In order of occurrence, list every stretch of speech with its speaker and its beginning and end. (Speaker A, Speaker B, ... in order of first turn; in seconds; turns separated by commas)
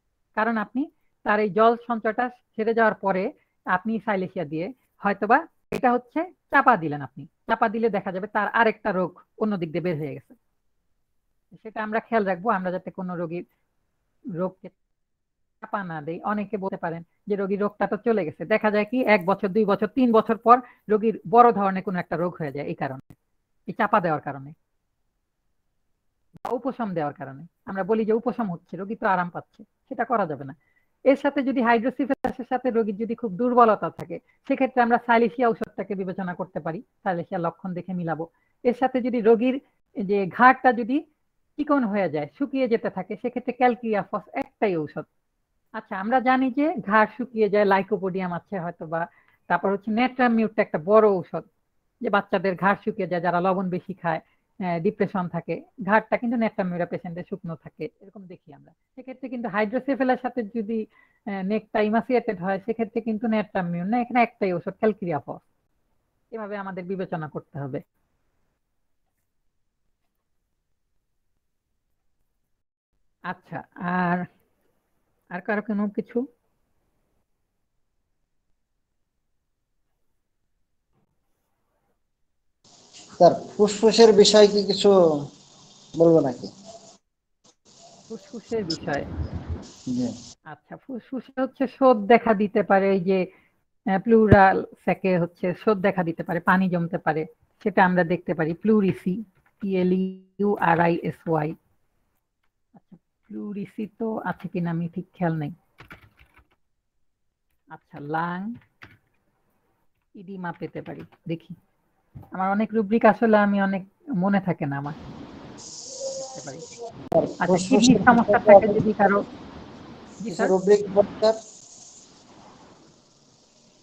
Speaker A: 0.4-10.4, Speaker A: 11.5-13.4, Speaker A: 14.4-14.7, Speaker A: 15.6-23.1, Speaker A: 23.7-24.5, Speaker A: 26.4-30.6, Speaker A: 31.1-41.0, Speaker A: 41.6-45.0, Speaker A: 45.8-51.4, Speaker A: 52.0-60.8, Speaker A: 61.4-65.4, Speaker A: 66.3-67.8, Speaker A: 73.3-74.2, Speaker A: 75.3-76.2, Speaker B: 83.2-85.2, Speaker B: 86.0-86.5, Speaker A: 88.1-89.1, Speaker B: 89.9-90.1, Speaker A: 90.5-93.3, Speaker A: 94.0-101.5, Speaker A: 102.8-105.5, Speaker A: 107.7-108.5, Speaker A: 110.2-111.5, Speaker A: 112.3-115.0, Speaker A: 116.2-116.6, Speaker B: 117.2-118.8, Speaker A: 117.4-119.2, Speaker A: 120.2-120.5, Speaker B: 120.3-121.4